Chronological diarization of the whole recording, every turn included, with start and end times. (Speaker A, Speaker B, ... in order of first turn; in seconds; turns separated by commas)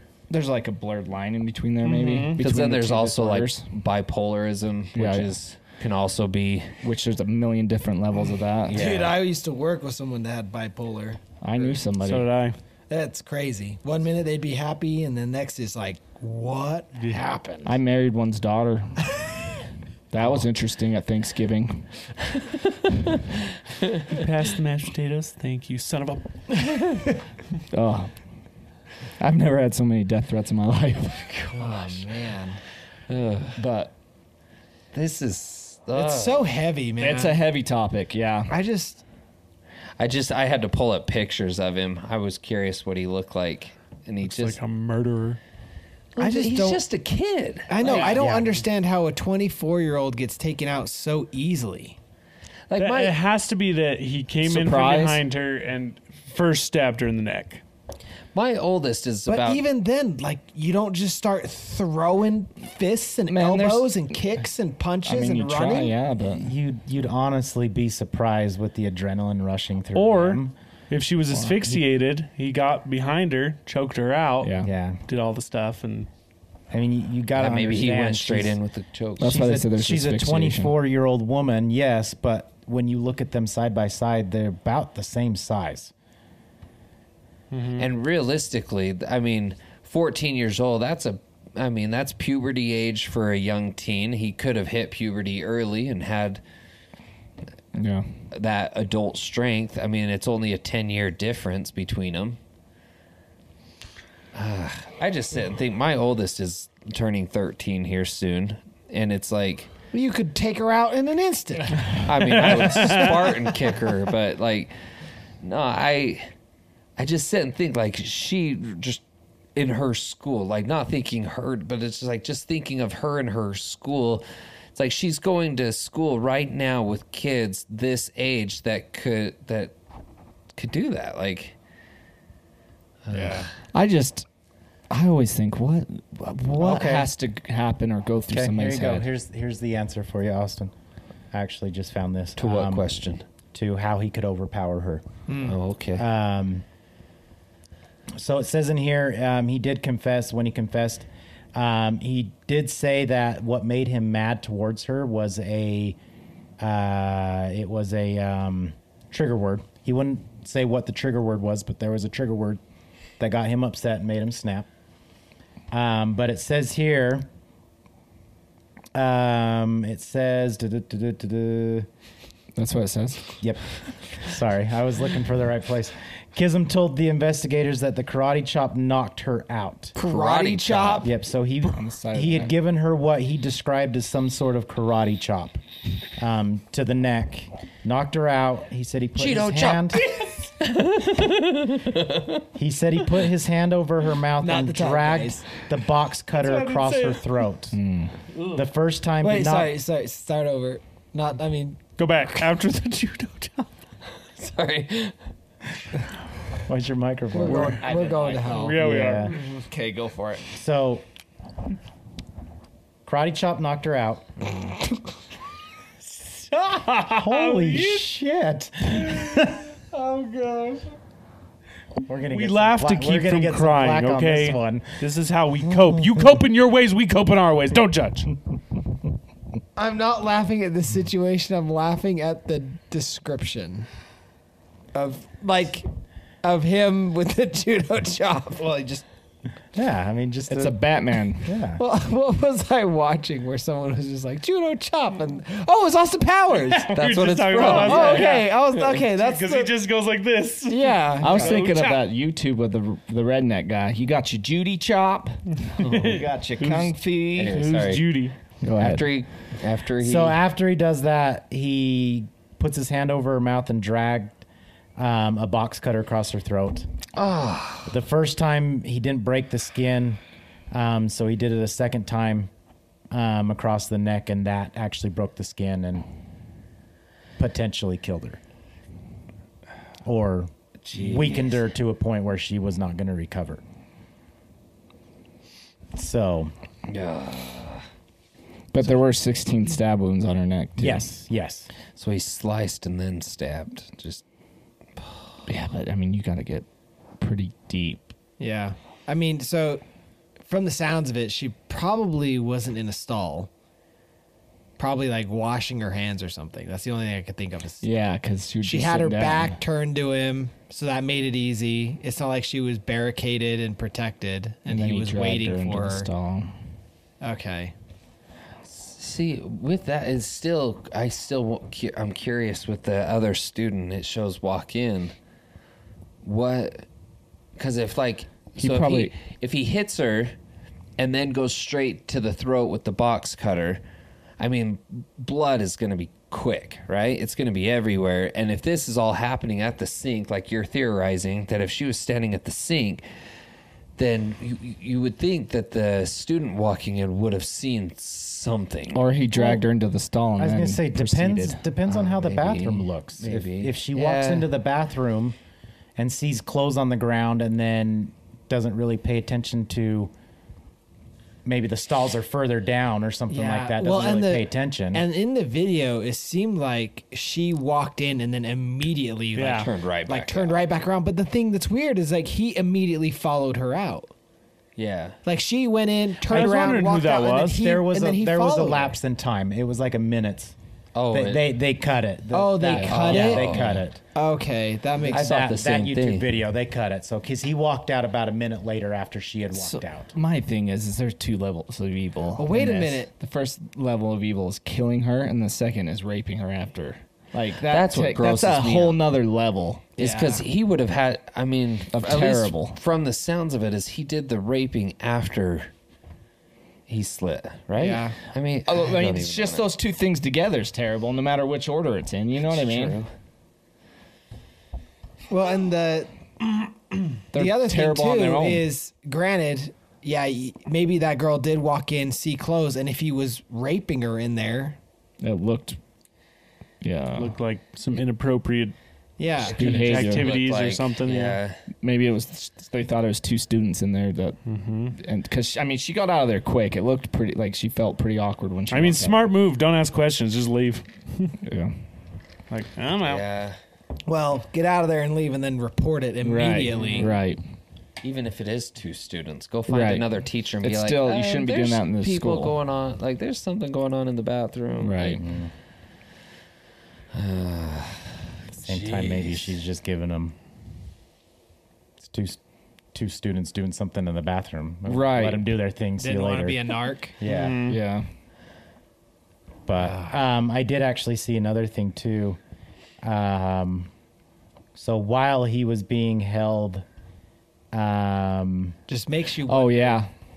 Speaker A: 0.3-3.7, Speaker B: 1.8-2.4, Speaker C: 2.4-6.7, Speaker A: 4.9-5.3, Speaker A: 6.8-8.9, Speaker C: 8.7-9.1, Speaker D: 8.7-11.2, Speaker A: 11.4-12.3, Speaker B: 12.0-12.6, Speaker D: 12.9-17.8, Speaker A: 17.6-19.2, Speaker A: 20.1-21.9, Speaker C: 23.7-24.0, Speaker B: 24.1-26.6, Speaker A: 27.7-28.1, Speaker A: 29.2-31.6, Speaker D: 31.5-32.6, Speaker C: 33.1-33.6, Speaker A: 33.5-33.9, Speaker C: 34.9-36.5, Speaker D: 35.9-37.4, Speaker A: 37.0-38.5, Speaker D: 38.5-39.0, Speaker C: 40.0-44.6, Speaker B: 44.2-45.4, Speaker C: 46.1-48.2, Speaker D: 46.2-46.8, Speaker D: 47.7-52.0, Speaker E: 48.2-48.5, Speaker C: 52.7-53.1, Speaker B: 52.8-57.6, Speaker A: 54.4-55.2, Speaker C: 58.3-59.6, Speaker D: 59.2-65.9, Speaker A: 63.3-64.2, Speaker A: 65.0-66.5, Speaker E: 66.2-70.5, Speaker B: 69.9-74.5, Speaker A: 71.3-71.8, Speaker A: 74.4-74.7, Speaker E: 74.6-75.0, Speaker B: 75.1-76.1, Speaker E: 76.7-78.6, Speaker C: 77.3-79.4, Speaker A: 79.2-80.8, Speaker E: 79.2-85.9, Speaker B: 87.5-87.8, Speaker C: 87.7-96.4, Speaker A: 97.7-98.1, Speaker C: 98.3-102.4, Speaker C: 104.3-109.7, Speaker D: 109.9-112.1, Speaker C: 112.0-114.7, Speaker B: 112.3-113.3, Speaker C: 115.4-116.3, Speaker C: 117.0-119.0, Speaker C: 119.5-129.7, Speaker C: 130.5-131.6, Speaker C: 133.1-133.5, Speaker D: 133.1-133.5, Speaker A: 133.7-134.2, Speaker A: 134.9-139.1, Speaker E: 136.6-137.1, Speaker E: 138.3-140.7, Speaker E: 141.3-142.9, Speaker C: 142.4-143.2, Speaker E: 143.5-145.1, Speaker D: 145.3-145.6, Speaker C: 145.4-146.0, Speaker E: 146.0-146.6, Speaker E: 148.1-156.0, Speaker E: 156.6-162.6, Speaker E: 163.2-164.7, Speaker E: 165.7-167.2, Speaker E: 168.9-171.9, Speaker A: 172.6-173.3, Speaker E: 173.4-179.9, Speaker D: 179.9-181.1, Speaker C: 180.0-181.1, Speaker E: 181.0-185.6, Speaker A: 181.6-182.6, Speaker E: 186.2-190.0, Speaker C: 189.2-192.4, Speaker E: 192.6-197.8, Speaker D: 194.4-195.4, Speaker B: 196.3-197.4, Speaker A: 197.7-198.1, Speaker E: 198.5-199.7, Speaker D: 199.2-201.8, Speaker B: 202.0-203.7, Speaker C: 204.3-205.2, Speaker E: 206.7-207.9, Speaker D: 207.3-208.8, Speaker A: 207.5-208.7, Speaker B: 208.5-209.3, Speaker E: 208.8-209.3, Speaker A: 209.3-210.4, Speaker E: 210.5-211.0, Speaker E: 213.1-214.3, Speaker B: 216.2-218.1, Speaker E: 217.0-219.8, Speaker B: 219.0-220.9, Speaker E: 222.1-224.8, Speaker B: 222.3-228.3, Speaker D: 229.8-233.9, Speaker D: 234.9-235.9, Speaker D: 236.4-239.0, Speaker E: 239.7-240.9, Speaker A: 240.5-241.6, Speaker E: 241.4-241.8, Speaker D: 241.8-249.7, Speaker B: 246.7-252.1, Speaker C: 246.9-248.8, Speaker D: 250.7-251.6, Speaker A: 251.2-257.7, Speaker B: 255.7-258.3, Speaker C: 257.4-258.1, Speaker A: 258.6-259.1, Speaker C: 258.8-260.4, Speaker E: 260.0-264.4, Speaker E: 265.0-266.9, Speaker C: 267.1-267.9, Speaker E: 267.9-270.2, Speaker E: 270.7-272.5, Speaker E: 273.1-276.1, Speaker E: 277.4-278.4, Speaker E: 280.0-283.6, Speaker C: 280.8-281.6, Speaker E: 285.9-286.5, Speaker C: 286.9-287.8, Speaker A: 288.7-291.1, Speaker E: 290.8-291.7, Speaker C: 291.9-294.2, Speaker C: 295.0-295.3, Speaker A: 295.5-296.7, Speaker A: 297.2-298.1, Speaker D: 298.4-299.8, Speaker D: 300.4-303.5, Speaker D: 304.8-307.9, Speaker A: 307.8-309.6, Speaker D: 308.6-316.1, Speaker A: 314.7-316.5, Speaker D: 317.2-317.7, Speaker C: 318.6-325.1, Speaker C: 326.2-326.9, Speaker C: 327.6-330.3, Speaker A: 328.6-329.1, Speaker C: 331.0-333.8, Speaker C: 334.4-343.0, Speaker C: 344.0-349.0, Speaker A: 348.9-351.6, Speaker E: 349.3-349.6, Speaker E: 350.4-355.4, Speaker C: 351.9-354.5, Speaker E: 356.0-360.1, Speaker E: 361.4-365.1, Speaker D: 363.3-374.1, Speaker B: 369.4-369.7, Speaker C: 369.6-370.6, Speaker C: 374.8-375.2, Speaker D: 375.2-378.9, Speaker B: 376.3-377.6, Speaker E: 377.5-380.5, Speaker C: 380.9-381.5, Speaker E: 381.1-384.0, Speaker D: 382.3-383.6, Speaker A: 382.7-383.6, Speaker C: 382.8-383.8, Speaker D: 384.1-385.3, Speaker C: 385.1-386.4, Speaker E: 385.1-390.1, Speaker A: 389.5-399.9, Speaker D: 392.4-393.1, Speaker C: 397.6-399.0, Speaker D: 400.0-400.4, Speaker C: 400.0-405.7, Speaker A: 401.9-402.8, Speaker C: 406.9-409.7, Speaker D: 407.8-408.2, Speaker A: 408.6-413.0, Speaker C: 412.5-413.1, Speaker D: 415.3-416.1, Speaker A: 417.3-418.6, Speaker D: 417.3-424.8, Speaker A: 425.2-425.8, Speaker A: 426.8-427.4, Speaker B: 427.1-428.7, Speaker D: 429.2-429.6, Speaker C: 429.4-431.6, Speaker B: 429.5-431.4, Speaker A: 429.6-430.3, Speaker A: 431.8-434.4, Speaker B: 434.4-434.9, Speaker A: 434.9-439.3, Speaker B: 438.7-441.4, Speaker A: 441.4-441.8, Speaker B: 442.5-443.2, Speaker C: 443.0-443.6, Speaker D: 444.1-447.1, Speaker A: 446.2-447.4, Speaker C: 448.0-455.2, Speaker A: 449.7-450.1, Speaker A: 450.6-452.6, Speaker A: 454.8-455.2, Speaker E: 455.2-455.5, Speaker C: 457.1-459.6, Speaker E: 458.6-460.4, Speaker E: 462.0-462.4, Speaker E: 462.9-467.6, Speaker A: 464.8-465.5, Speaker D: 466.0-467.2, Speaker B: 467.2-467.8, Speaker A: 467.6-468.1, Speaker E: 469.7-472.4, Speaker D: 469.8-470.1, Speaker E: 473.0-473.9, Speaker E: 474.7-476.8, Speaker E: 477.7-478.8, Speaker D: 478.9-480.0, Speaker A: 479.5-480.1